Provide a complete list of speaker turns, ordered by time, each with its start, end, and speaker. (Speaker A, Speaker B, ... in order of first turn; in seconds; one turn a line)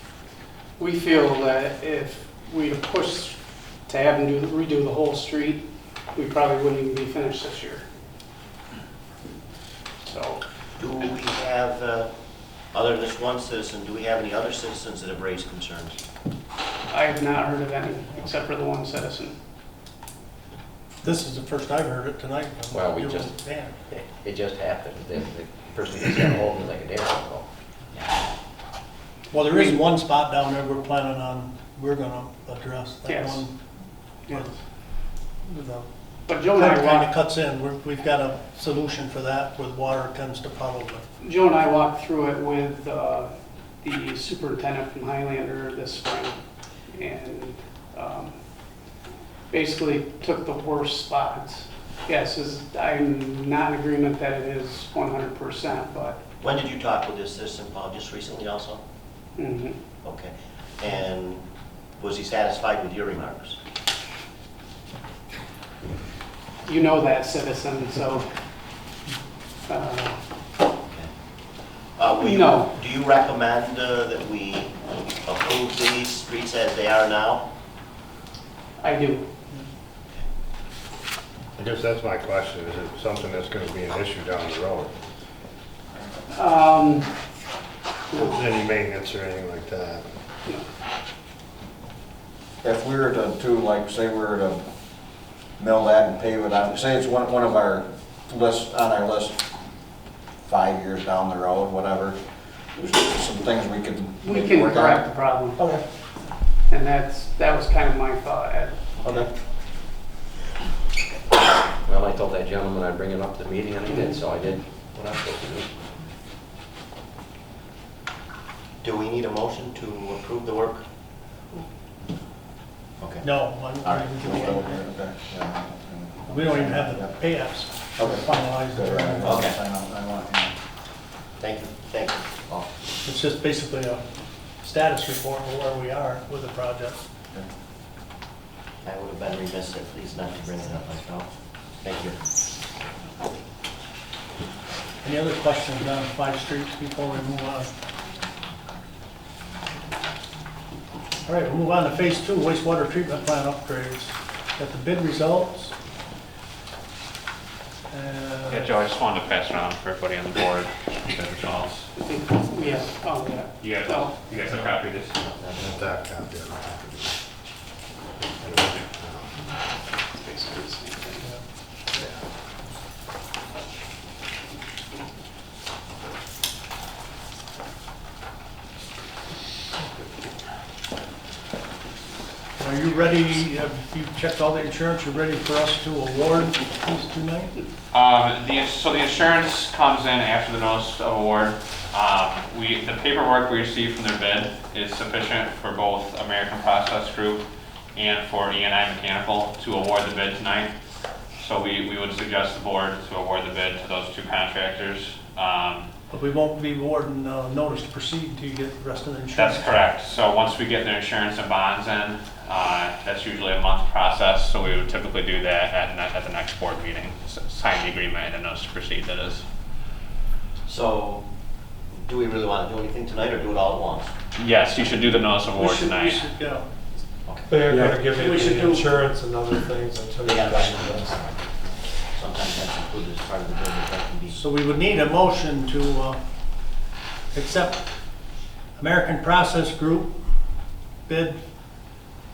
Speaker A: 0.8-5.6
Speaker A: 6.1-7.8
Speaker A: 10.0-10.4
Speaker B: 10.8-12.1
Speaker B: 12.7-16.0
Speaker A: 16.9-19.3
Speaker C: 21.0-23.7
Speaker D: 22.7-23.4
Speaker D: 23.9-27.4
Speaker C: 29.3-33.5
Speaker A: 29.3-29.9
Speaker A: 33.0-33.5
Speaker A: 34.3-34.5
Speaker C: 35.5-35.9
Speaker A: 36.3-37.2
Speaker C: 36.6-41.0
Speaker A: 41.2-43.3
Speaker A: 43.8-48.3
Speaker A: 49.5-56.2
Speaker B: 56.4-58.8
Speaker A: 59.4-59.8
Speaker B: 60.0-61.4
Speaker B: 62.0-63.6
Speaker A: 66.6-68.3
Speaker A: 69.7-70.2
Speaker B: 72.0-77.4
Speaker A: 72.2-72.7
Speaker A: 78.8-79.2
Speaker E: 81.5-84.9
Speaker A: 86.3-87.1
Speaker A: 88.1-88.5
Speaker E: 88.1-90.1
Speaker F: 92.6-94.6
Speaker F: 95.6-99.4
Speaker F: 100.5-102.2
Speaker F: 102.8-105.8
Speaker A: 104.2-105.6
Speaker A: 106.7-109.2
Speaker D: 111.8-115.7
Speaker A: 113.9-114.2
Speaker B: 118.8-120.8
Speaker B: 123.0-124.2
Speaker C: 123.2-124.8
Speaker F: 124.2-127.1
Speaker C: 126.3-129.4
Speaker F: 128.0-130.5
Speaker B: 129.2-129.6
Speaker B: 131.4-132.7
Speaker C: 133.0-134.0
Speaker C: 134.6-137.0
Speaker B: 138.8-141.3
Speaker B: 141.8-142.2
Speaker C: 145.0-147.7
Speaker C: 151.2-155.7
Speaker C: 157.9-158.6
Speaker G: 158.5-161.9
Speaker A: 161.9-164.2
Speaker G: 163.6-165.2
Speaker B: 165.3-165.7
Speaker E: 165.5-167.2
Speaker E: 168.2-169.4
Speaker A: 170.1-171.3
Speaker E: 172.0-172.2
Speaker C: 182.6-187.5
Speaker G: 187.9-197.4
Speaker G: 197.9-200.7
Speaker G: 201.4-205.9
Speaker C: 206.1-209.8
Speaker G: 209.3-219.4
Speaker B: 220.7-221.2
Speaker B: 222.0-224.1
Speaker G: 224.3-226.3
Speaker C: 225.6-226.7
Speaker H: 227.5-231.2
Speaker C: 228.1-228.9
Speaker B: 230.2-231.4
Speaker B: 232.1-234.4
Speaker C: 234.3-236.2
Speaker C: 237.3-237.8
Speaker C: 238.8-240.2
Speaker C: 241.1-241.4